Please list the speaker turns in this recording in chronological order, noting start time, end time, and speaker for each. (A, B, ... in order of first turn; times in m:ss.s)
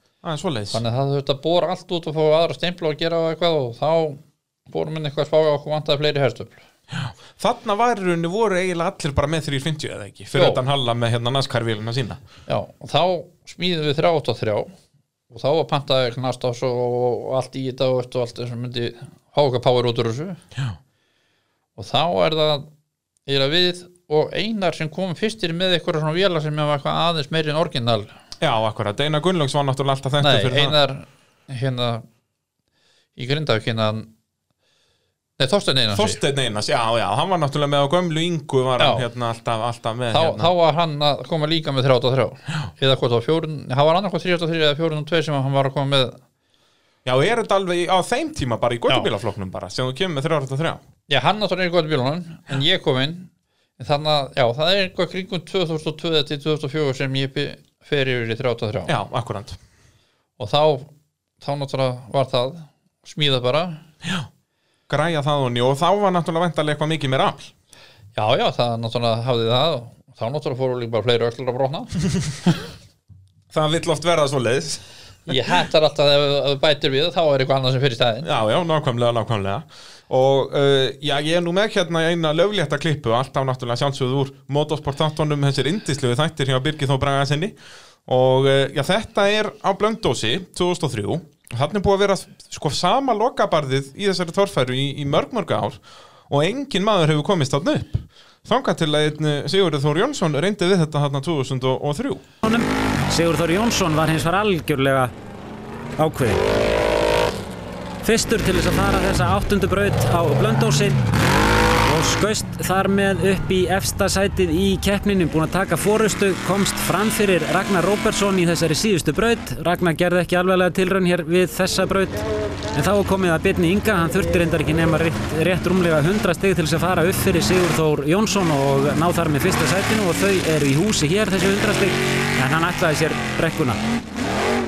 0:00.2-0:00.8 A
0:00.7-0:06.6 B
0:06.9-0:12.2 A
0:10.4-0:10.6 B
0:12.5-0:14.7 B
0:15.3-0:20.4 B
0:21.8-0:22.7 B
0:23.3-0:28.1 B
0:28.4-0:30.8 A
0:30.2-0:32.0 B
0:33.2-0:34.1 B
0:35.4-0:36.2 B
0:35.9-0:40.5 A
0:38.8-0:39.0 B
0:40.1-0:46.2 B
0:47.0-0:50.8 A
0:51.1-0:58.9 B
0:58.9-0:59.6 A
1:00.4-1:00.9 B
1:01.4-1:03.8 B
1:04.9-1:07.5 A
1:08.2-1:12.0 B
1:13.5-1:15.4 A
1:15.3-1:18.3 B
1:18.2-1:42.2 A
1:42.4-1:45.1 C
1:46.0-1:46.4 C
1:48.0-1:51.1 C
1:51.8-2:02.2 C
2:02.7-2:13.8 C